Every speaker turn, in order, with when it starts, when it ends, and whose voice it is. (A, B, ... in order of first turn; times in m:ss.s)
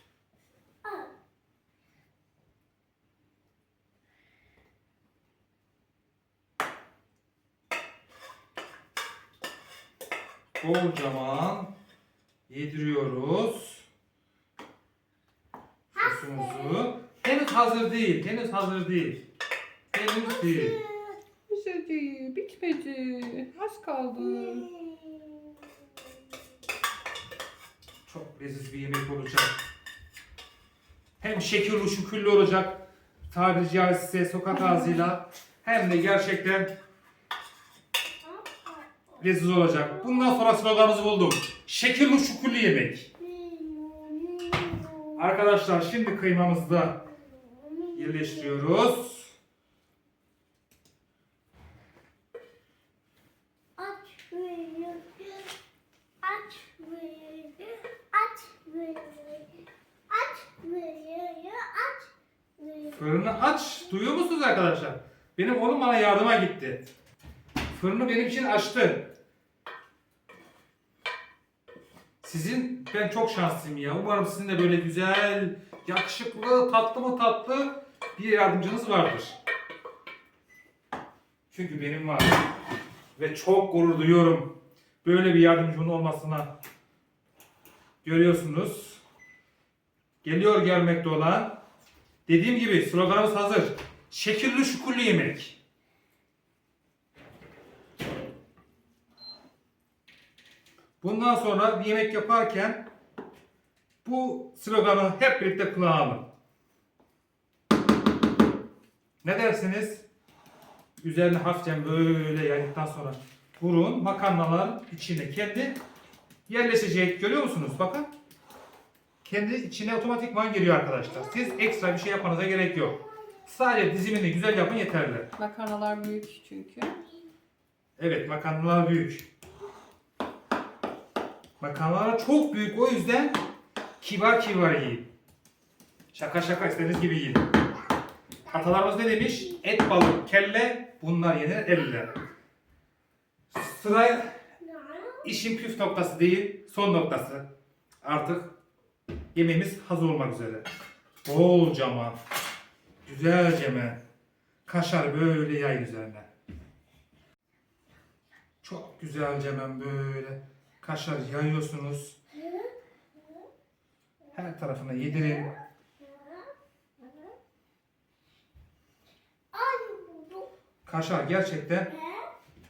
0:00.8-0:01.1 A
0:10.6-0:11.7 B
0:12.5-0:13.9 B
0:15.9-0:19.2 B
0:19.9-0:20.8 B
0:20.5-0:21.2 A
0:21.5-0:24.7 C
0:24.4-0:25.6 A
0:28.1-0:29.6 B
0:31.2-0:36.7 B
0:38.3-0:38.9 A
0:39.2-0:43.1 B
0:43.3-0:45.1 A
0:45.2-0:47.0 B
0:47.5-0:47.9 A
0:47.9-0:49.3 B
0:53.8-0:55.5 A
0:56.2-0:59.5 A
1:00.1-1:02.9 A
1:02.9-1:06.9 B
1:07.7-1:09.1 B
1:12.2-1:19.4 B
1:21.5-1:22.5 B
1:23.2-1:24.5 B
1:25.0-1:26.5 B
1:28.0-1:29.0 B
1:30.2-1:31.6 B
1:32.3-1:35.6 B
1:41.0-1:42.9 B
1:44.0-1:46.2 B
1:49.2-1:50.0 B
1:51.0-1:55.8 B
1:56.5-1:58.1 B
1:59.2-2:05.3 B
2:05.4-2:07.0 C
2:08.0-2:09.3 B
2:11.6-2:13.4 B
2:14.0-2:15.1 B
2:16.1-2:17.5 B
2:18.5-2:22.2 B
2:23.5-2:24.4 B
2:25.2-2:27.5 B
2:28.0-2:28.5 B
2:29.3-2:30.7 B
2:31.2-2:32.2 B
2:33.0-2:34.0 B
2:34.6-2:36.3 B
2:38.6-2:42.2 B
2:42.4-2:42.7 A
2:44.3-2:45.5 B
2:46.0-2:46.5 A
2:49.5-2:50.5 A
2:50.8-2:51.9 B
2:52.0-2:52.3 A